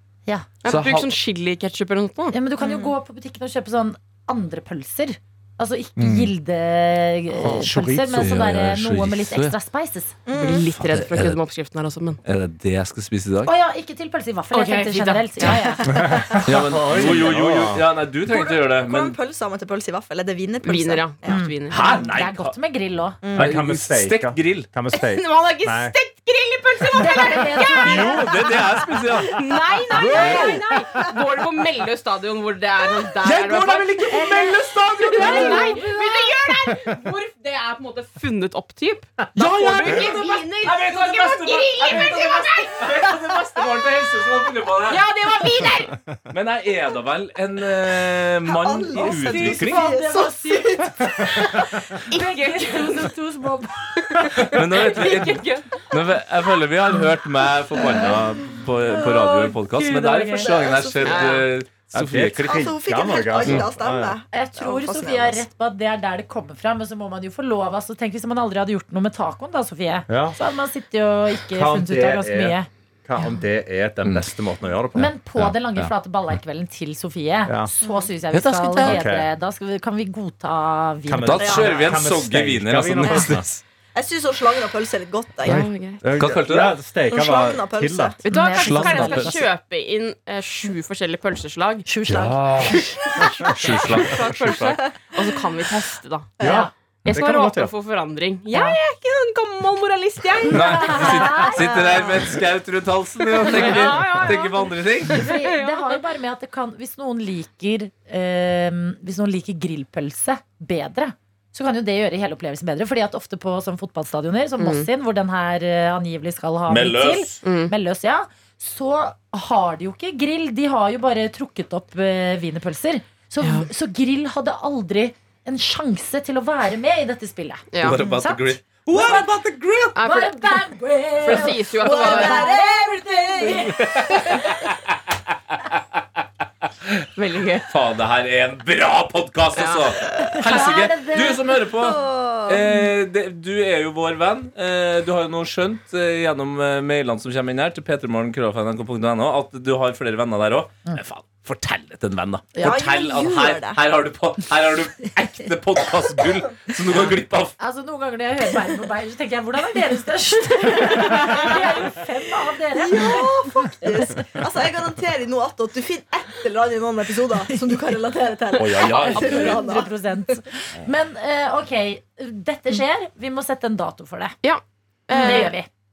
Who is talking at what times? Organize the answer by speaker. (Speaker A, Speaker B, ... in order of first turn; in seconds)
Speaker A: 0.6-2.3, 10.3-12.2, 14.5-15.6, 20.6-21.8, 24.9-28.2, 29.3-34.5, 35.1-42.9, 44.9-46.0, 52.1-53.1, 54.0-55.8, 61.0-61.5, 85.4-86.0, 88.2-91.8, 93.9-96.3, 97.0-101.5, 103.4-106.0, 114.6-114.9, 117.4-117.7, 123.4-123.7, 127.7-128.0, 129.9-130.7, 131.2-132.5, 137.2-137.7, 139.6-139.9, 169.1-169.6, 174.4-175.6
Speaker B: 0.7-1.1, 7.4-9.5, 10.7-11.4, 12.2-13.5, 16.4-19.2, 21.7-22.5, 23.3-24.7, 27.7-30.6, 33.2-35.8, 39.4-45.1, 46.3-49.9, 54.4-62.7, 63.4-63.7, 75.4-75.9, 78.3-79.0, 81.2-83.6, 85.5-86.7, 88.5-89.4, 92.1-92.8, 93.5-94.6, 100.5-105.3, 116.7-117.4, 127.8-129.9, 133.8-134.9, 137.7-157.6, 168.6-169.6
Speaker C: 2.3-10.1, 13.4-16.4, 21.2-23.2, 26.9-28.2, 30.1-30.5, 35.1-36.1, 48.9-54.4, 59.0-60.6, 64.3-72.7, 75.0-81.6, 88.2-89.5, 91.8-93.5, 96.4-96.7, 98.5-98.8, 100.4-102.0, 105.1-129.2, 130.0-134.6, 140.3-141.5, 152.5-152.8, 157.6-164.2, 168.8-174.4, 175.1-175.7
Speaker D: 2.6-2.9, 10.3-10.7, 15.4-16.4, 17.0-17.3, 18.3-21.4, 23.2-23.5, 41.9-43.4, 48.4-51.6, 60.4-61.4, 62.4-65.4, 77.8-78.1, 81.4-82.0, 83.9-85.7, 87.1-88.2, 96.4-96.7, 100.3-102.3, 131.8-134.0, 141.7-142.7, 152.6-153.8, 160.7-161.6, 162.7-169.9, 175.2-175.4
Speaker E: 6.0-6.3, 7.4-8.3, 15.9-17.8, 23.3-25.9, 34.1-34.5, 36.5-37.0, 61.9-64.2, 70.1-70.4, 71.5-75.1, 78.8-79.3, 81.0-83.4, 85.5-88.2, 93.3-94.8, 96.4-97.7